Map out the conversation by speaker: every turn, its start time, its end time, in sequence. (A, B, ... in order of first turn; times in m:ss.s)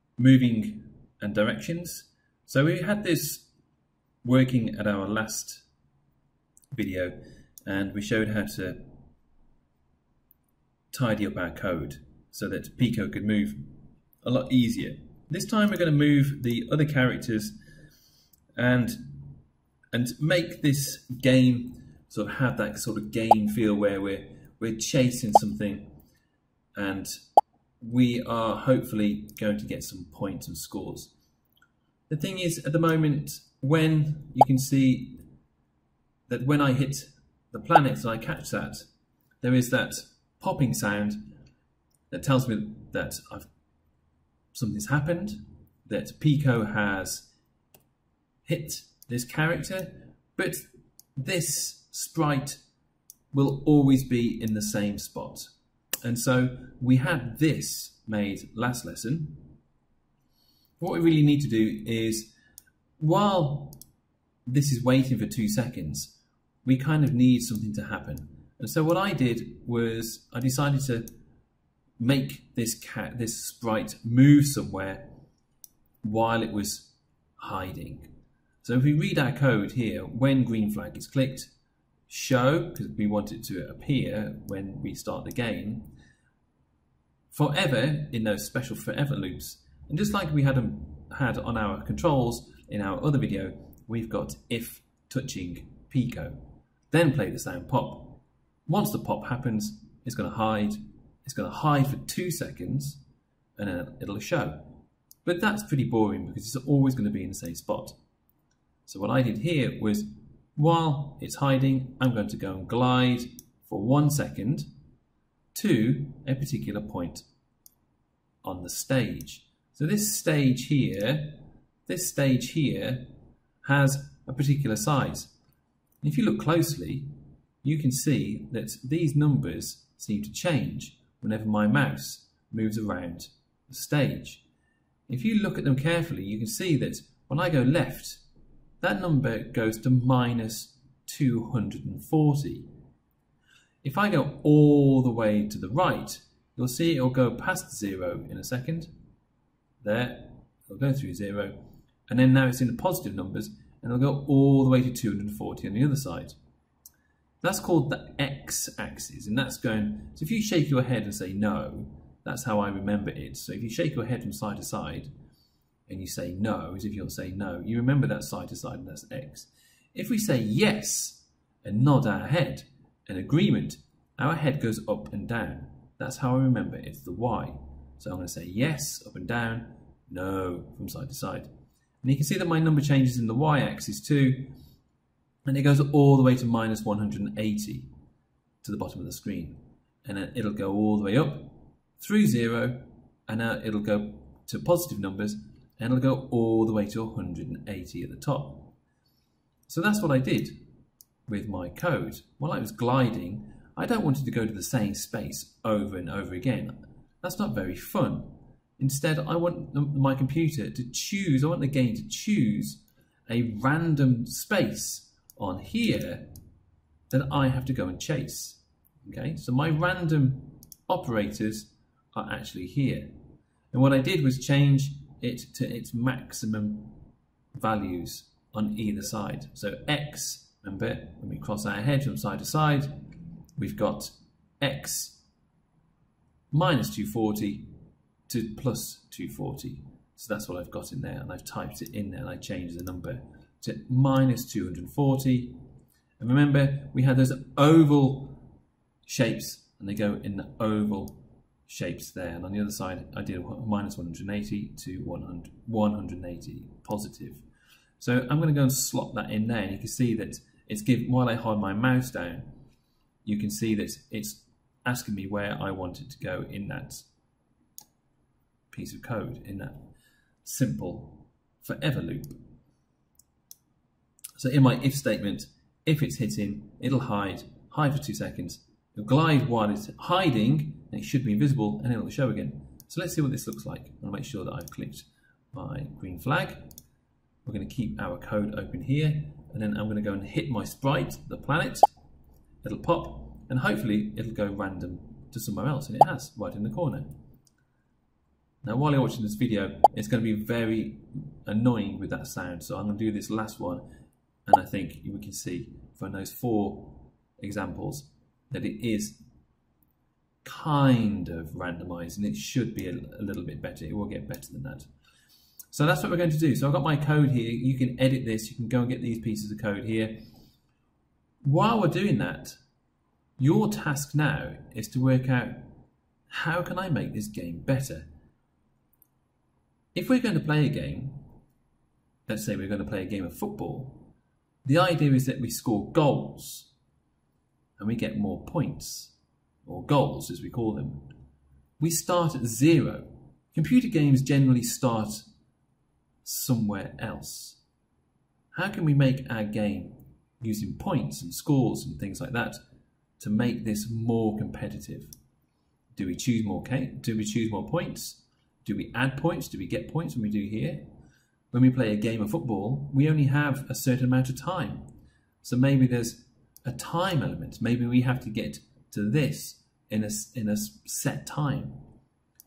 0:00.2-0:03.5 A
0:04.2-0:05.6 A
0:06.7-0:08.8 A
0:10.9-0:17.6 A
0:18.6-0:19.3 A
0:19.9-0:25.9 A
0:26.8-0:27.2 A
0:27.8-0:31.1 A
0:32.1-0:35.2 A
0:36.3-0:38.9 A
0:39.4-0:41.2 A
0:42.1-0:43.5 A
0:44.5-0:47.3 A
0:48.5-0:52.6 A
0:53.3-0:55.5 A
0:56.0-0:59.5 A
1:00.8-1:02.3 A
1:03.0-1:03.8 A
1:04.5-1:11.1 A
1:12.0-1:15.1 A
1:16.0-1:18.1 A
1:18.6-1:21.5 A
1:22.1-1:25.9 A
1:27.3-1:43.0 A
1:43.6-1:48.0 A
1:48.9-1:54.7 A
1:55.5-1:57.2 A
1:58.4-2:03.1 A
2:03.6-2:05.3 A
2:06.0-2:07.1 A
2:07.6-2:14.4 A
2:15.1-2:18.2 A
2:18.8-2:22.7 A
2:23.8-2:28.9 A
2:29.8-2:36.4 A
2:37.4-2:45.1 A
2:45.9-3:01.5 A
3:02.0-3:04.5 A
3:05.4-3:07.9 A
3:08.6-3:18.8 A
3:19.7-3:20.6 A
3:21.3-3:36.3 A
3:37.1-3:43.1 A
3:43.7-3:47.0 A
3:47.6-3:52.9 A
3:53.6-3:55.2 A
3:56.5-3:57.7 A
3:58.3-4:05.6 A
4:06.2-4:08.4 A
4:09.1-4:17.4 A
4:18.0-4:22.5 A
4:23.2-4:27.1 A
4:28.7-4:29.9 A
4:30.4-4:32.4 A
4:34.4-4:46.6 A
4:47.4-4:51.9 A
4:52.6-4:57.1 A
4:58.6-5:03.8 A
5:04.5-5:09.2 A
5:10.4-5:14.9 A
5:15.7-5:20.2 A
5:21.4-5:22.6 A
5:23.4-5:25.8 A
5:26.3-5:28.1 A
5:29.9-5:31.2 A
5:32.3-5:34.1 A
5:34.6-5:36.7 A
5:37.8-5:41.1 A
5:41.8-5:45.3 A
5:46.2-5:47.6 A
5:48.5-5:52.6 A
5:53.2-5:55.1 A
5:56.0-6:00.8 A
6:01.5-6:04.9 A
6:05.4-6:11.8 A